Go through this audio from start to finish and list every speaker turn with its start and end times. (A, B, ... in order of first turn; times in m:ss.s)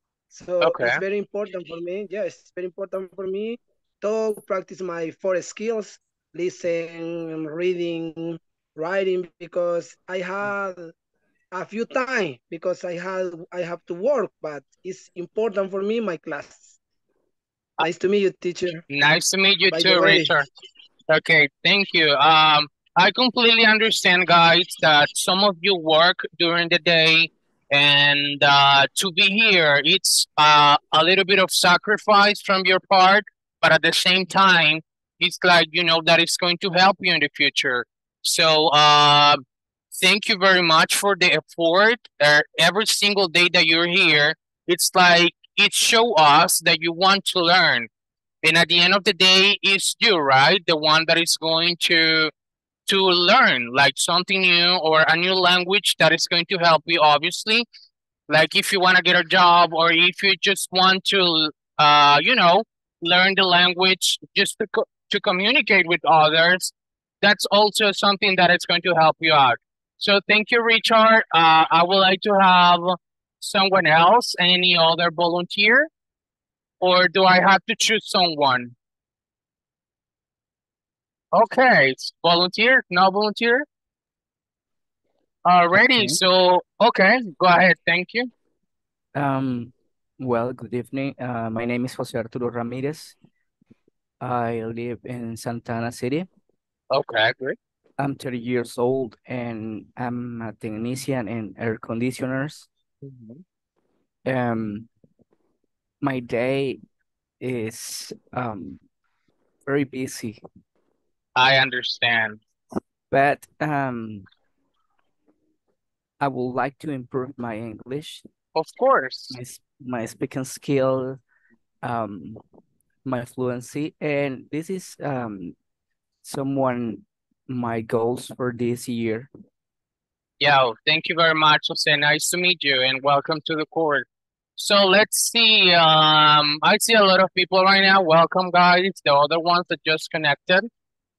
0:00.3-0:10.9 A
0:00.6-0:01.0 B
0:11.5-0:16.8 A
0:17.8-0:18.8 A
0:18.9-0:20.4 B
0:19.7-0:20.4 A
0:21.1-0:39.4 B
0:39.9-0:47.9 B
0:48.4-0:52.3 B
0:52.9-0:57.6 B
0:58.3-1:15.9 B
1:16.8-1:18.7 B
1:21.3-1:23.6 B
1:25.4-1:28.3 B
1:29.1-1:33.2 C
1:34.2-1:36.3 C
1:36.9-1:37.6 B
1:38.0-1:42.7 C
1:43.0-1:43.4 B
1:44.2-1:44.9 C
1:46.0-1:46.8 C
1:47.4-1:48.8 C
1:49.6-1:50.4 C
1:51.4-1:52.4 B
1:53.1-1:54.3 C
1:56.2-1:58.2 C
1:58.5-1:59.3 B
1:59.3-2:01.2 C
2:01.8-2:02.4 C
2:03.0-2:05.5 C
2:06.2-2:09.3 C
2:10.4-2:14.1 B
2:14.6-2:20.7 B